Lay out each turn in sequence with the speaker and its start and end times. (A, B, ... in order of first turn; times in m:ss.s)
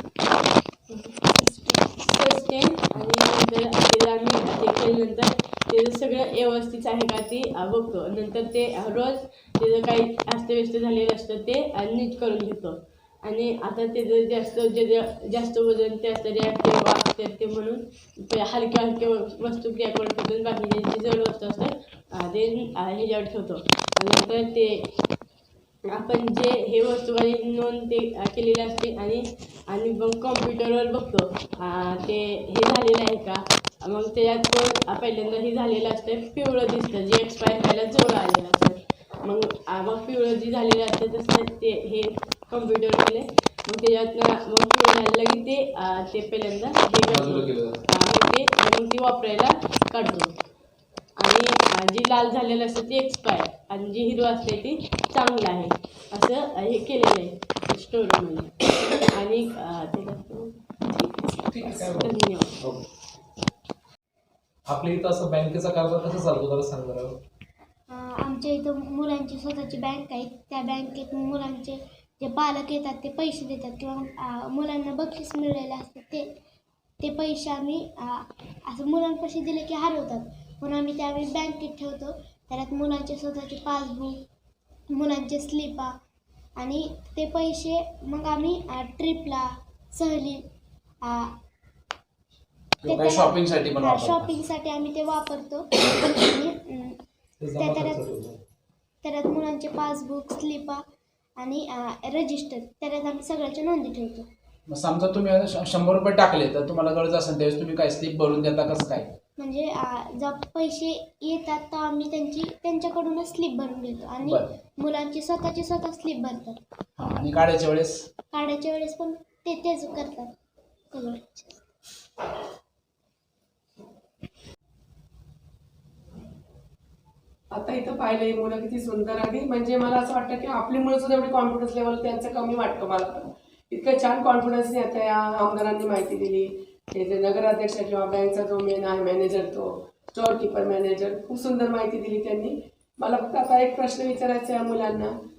0:00.9-0:01.2 A
0:02.0-0:24.9 A
0:25.9-0:50.3 A
0:47.1-0:47.8 B
0:51.2-1:01.2 A
1:01.5-1:02.8 B
1:01.7-1:02.6 A
1:04.7-1:07.2 B
1:07.9-1:16.3 C
1:17.0-1:24.2 C
1:24.9-1:25.9 C
1:26.6-1:30.4 C
1:31.0-1:31.3 C
1:32.8-1:34.4 D
1:32.8-1:37.0 C
1:37.4-1:38.4 B
1:37.6-1:38.1 C
1:39.0-1:40.8 C
1:41.4-1:44.3 C
1:44.7-1:49.1 D
1:49.4-1:56.6 C
1:54.2-1:54.5 D
1:57.0-1:58.1 D
1:58.3-2:00.3 C
2:00.9-2:01.6 C
2:07.5-2:25.1 E